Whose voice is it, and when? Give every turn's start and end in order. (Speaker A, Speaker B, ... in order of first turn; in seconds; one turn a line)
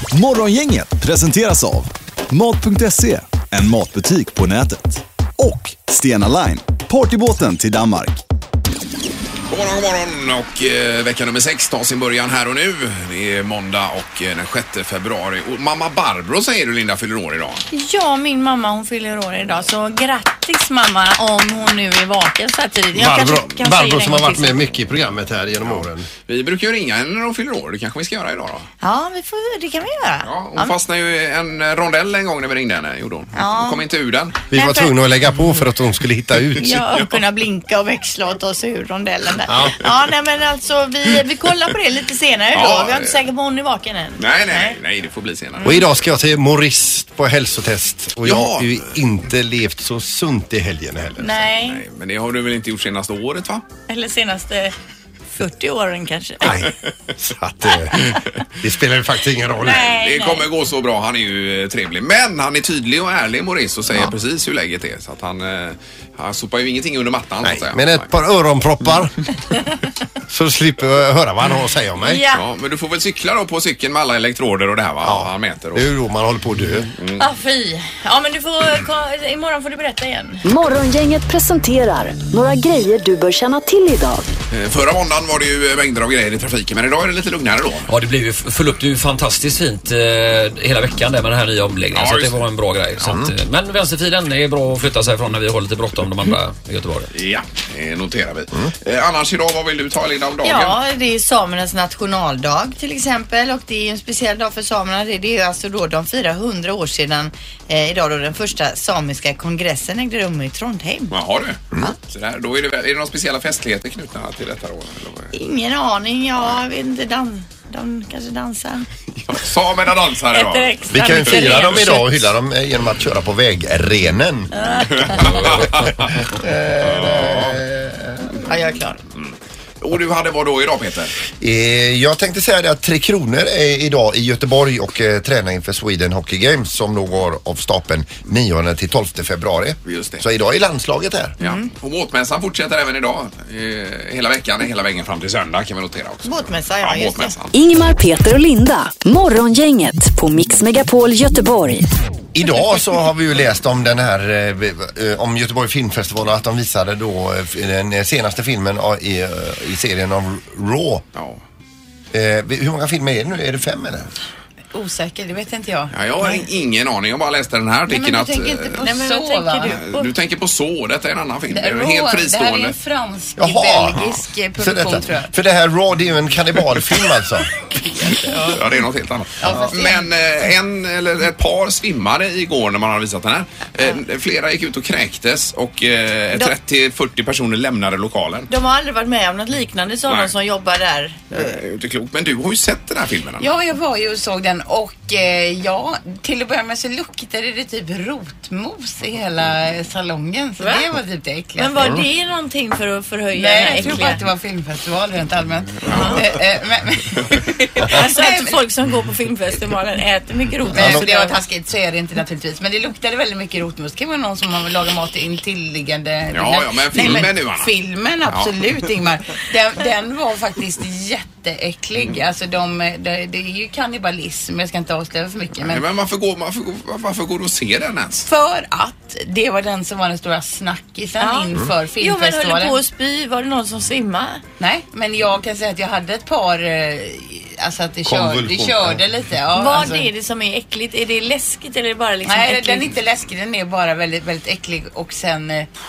Speaker A: 0.1-8.2
Speaker B: 9.5-17.7
Speaker C: 17.7-24.6
Speaker D: 22.9-26.1
Speaker B: 25.7-28.7
Speaker C: 28.8-30.8
Speaker B: 30.2-34.4
Speaker C: 33.4-33.8
Speaker D: 34.5-36.8
Speaker C: 34.5-35.0
Speaker C: 36.6-44.8
Speaker D: 39.5-39.8
Speaker B: 42.5-43.2
Speaker B: 44.2-45.9
Speaker C: 45.6-45.8
Speaker D: 45.6-51.5
Speaker B: 48.2-48.8
Speaker C: 51.2-51.8
Speaker B: 51.6-53.6
Speaker C: 53.9-54.8
Speaker C: 55.3-56.5
Speaker D: 56.4-59.9
Speaker B: 56.5-56.7
Speaker B: 57.9-58.2
Speaker C: 59.6-60.5
Speaker B: 59.7-68.1
Speaker D: 67.4-69.2
Speaker D: 70.3-72.2
Speaker C: 72.0-72.4
Speaker B: 72.3-75.9
Speaker D: 75.0-76.9
Speaker B: 77.0-77.3
Speaker C: 77.2-80.4
Speaker E: 80.4-84.3
Speaker B: 84.5-87.9
Speaker F: 87.9-97.1
Speaker B: 91.9-92.4
Speaker D: 93.0-93.3
Speaker B: 97.1-100.8
Speaker C: 100.4-111.1
Speaker B: 111.1-115.3
Speaker C: 115.3-118.9
Speaker B: 119.2-121.9
Speaker C: 120.3-122.2
Speaker D: 120.9-128.3
Speaker C: 124.5-125.2
Speaker B: 124.9-127.6
Speaker C: 128.5-129.0
Speaker B: 129.2-131.2
Speaker D: 131.4-141.3
Speaker B: 139.9-140.2
Speaker B: 141.4-147.5
Speaker C: 141.4-141.7
Speaker C: 146.2-147.3
Speaker E: 147.5-151.9
Speaker D: 152.3-161.1
Speaker B: 161.2-161.4
Speaker D: 162.1-164.1
Speaker G: 164.7-165.9
Speaker B: 165.9-168.8
Speaker G: 167.9-169.8
Speaker C: 168.8-170.1
Speaker B: 169.7-172.8
Speaker G: 171.5-175.3
Speaker D: 173.4-174.0
Speaker D: 174.6-177.5
Speaker C: 178.2-178.6
Speaker B: 178.5-188.5
Speaker C: 179.4-179.9
Speaker C: 188.5-191.6
Speaker B: 191.3-193.5
Speaker G: 193.4-201.8
Speaker C: 200.6-200.9
Speaker C: 201.6-204.2
Speaker G: 203.3-208.6
Speaker B: 205.9-206.2
Speaker C: 205.9-206.3
Speaker C: 207.8-211.4
Speaker G: 210.7-225.9
Speaker D: 210.7-211.0
Speaker B: 216.3-217.7
Speaker C: 217.0-217.3
Speaker B: 218.2-218.5
Speaker B: 225.6-228.3
Speaker G: 228.3-232.8
Speaker C: 231.2-234.4
Speaker G: 234.6-240.1
Speaker D: 238.1-239.0
Speaker C: 239.5-243.0
Speaker G: 242.2-245.7